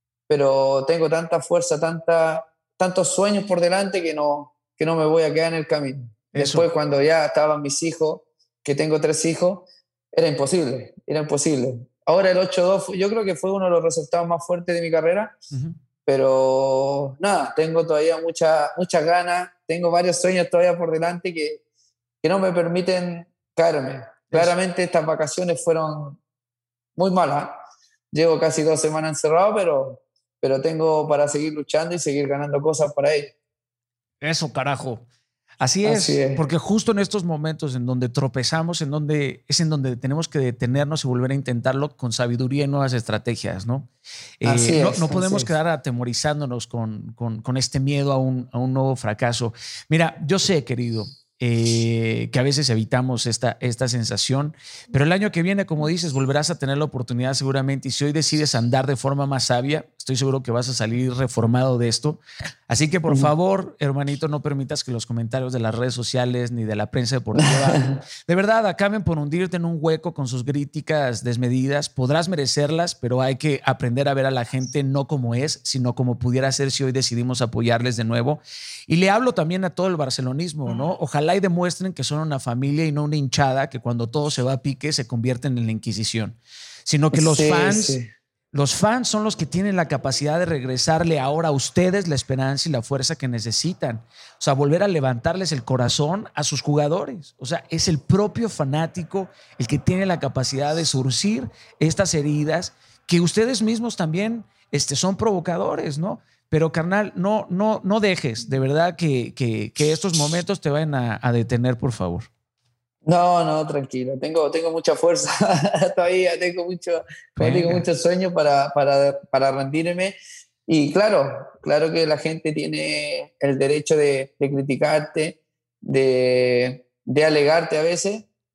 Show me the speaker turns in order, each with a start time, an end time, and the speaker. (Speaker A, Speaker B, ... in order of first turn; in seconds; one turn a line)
Speaker A: 0.3-15.4
Speaker B: 6.3-6.7
Speaker B: 15.5-15.8
Speaker A: 16.1-21.6
Speaker A: 22.2-26.2
Speaker A: 27.0-27.6
Speaker A: 28.1-33.3
Speaker B: 34.2-35.1
Speaker B: 35.6-43.9
Speaker A: 35.8-36.5
Speaker B: 44.4-88.0
Speaker A: 44.4-45.5
Speaker A: 67.5-67.9
Speaker A: 87.1-88.1
Speaker B: 88.5-112.3
Speaker A: 113.0-120.2
Speaker B: 117.4-117.8
Speaker A: 120.7-128.3